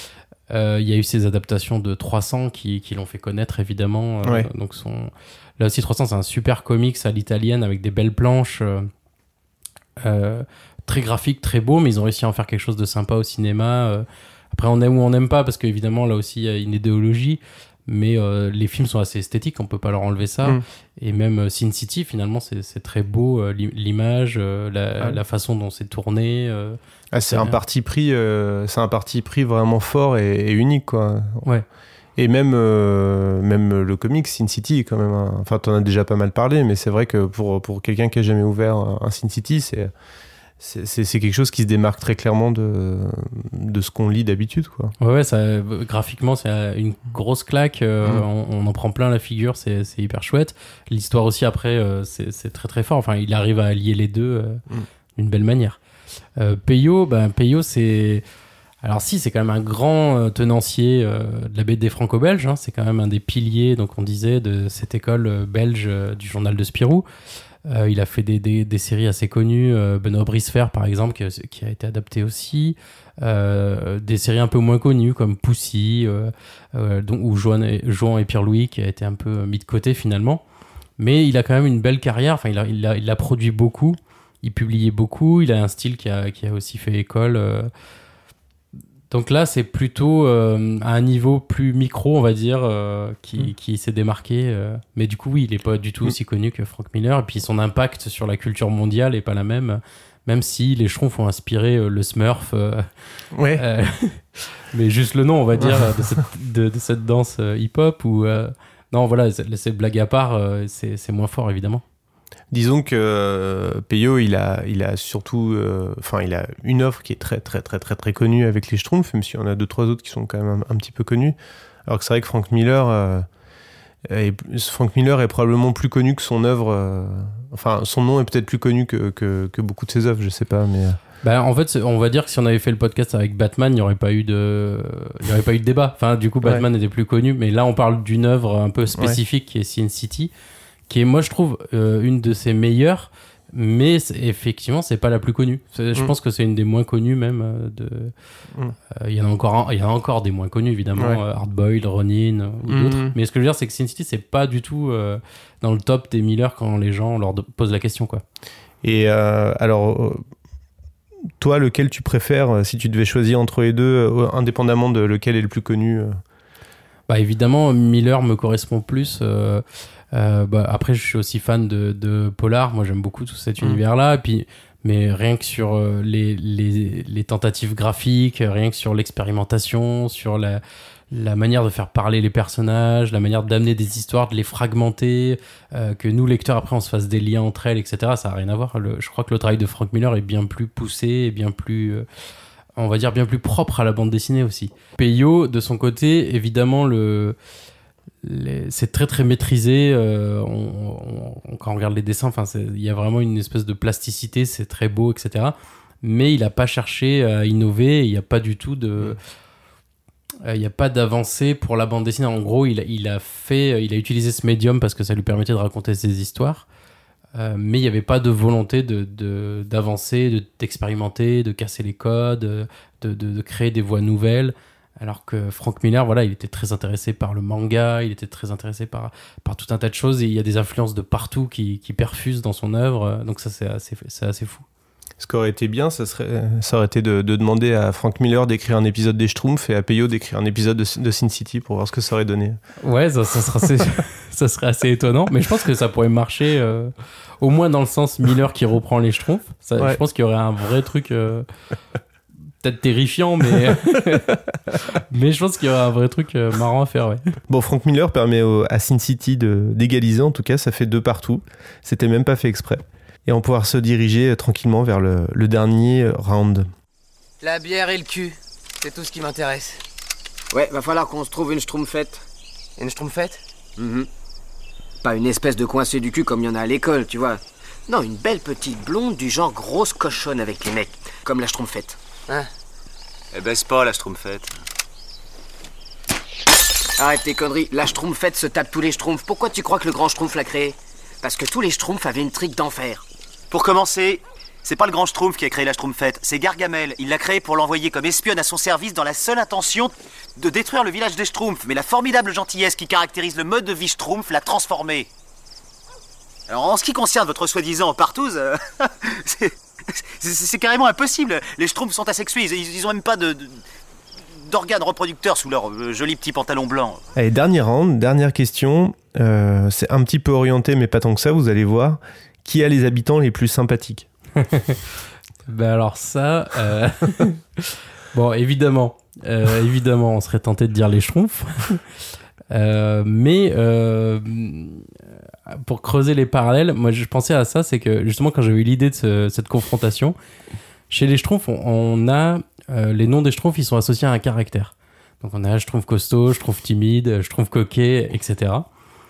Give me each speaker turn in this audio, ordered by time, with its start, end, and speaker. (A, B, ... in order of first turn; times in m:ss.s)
0:00.5-0:08.9 A
0:10.0-0:26.8 A
0:27.1-0:31.4 B
0:27.3-0:27.6 A
0:32.2-0:39.9 B
0:40.6-0:44.9 B
0:45.0-0:54.6 A
0:55.2-0:55.8 A
0:56.4-0:58.2 A
0:58.8-1:07.0 A
1:07.6-1:20.4 A
1:21.0-1:27.7 A
1:29.1-1:42.9 A
1:43.4-1:43.6 B
1:43.6-1:51.8 A
1:45.6-1:46.2 B
1:52.5-2:03.3 B
2:04.0-2:11.0 B
2:11.2-2:20.3 A
2:20.9-2:28.1 A
2:29.0-2:38.2 A
2:31.0-2:31.2 B
2:32.7-2:33.1 B
2:38.8-2:40.2 B
2:41.4-2:46.2 B
2:47.1-3:12.0 A
3:12.8-3:17.4 A
3:18.2-3:29.2 A
3:30.4-3:36.6 A
3:37.4-3:54.6 A
3:55.2-4:02.6 B
4:02.8-4:11.5 A
4:12.6-4:14.4 A
4:14.9-4:17.2 A
4:17.5-4:26.7 B
4:27.4-4:29.8 C
4:30.5-4:32.2 D
4:32.8-4:33.4 C
4:33.8-4:34.1 D
4:35.0-4:42.0 D
4:43.3-4:44.5 E
4:47.0-4:53.0 D
4:53.5-5:05.1 E
5:06.5-5:13.6 E
5:14.4-5:17.0 E
5:17.2-5:24.1 B
5:24.4-5:24.8 A
5:25.5-5:31.8 A
5:32.5-5:34.9 A
5:35.5-5:40.2 A
5:40.9-5:48.7 A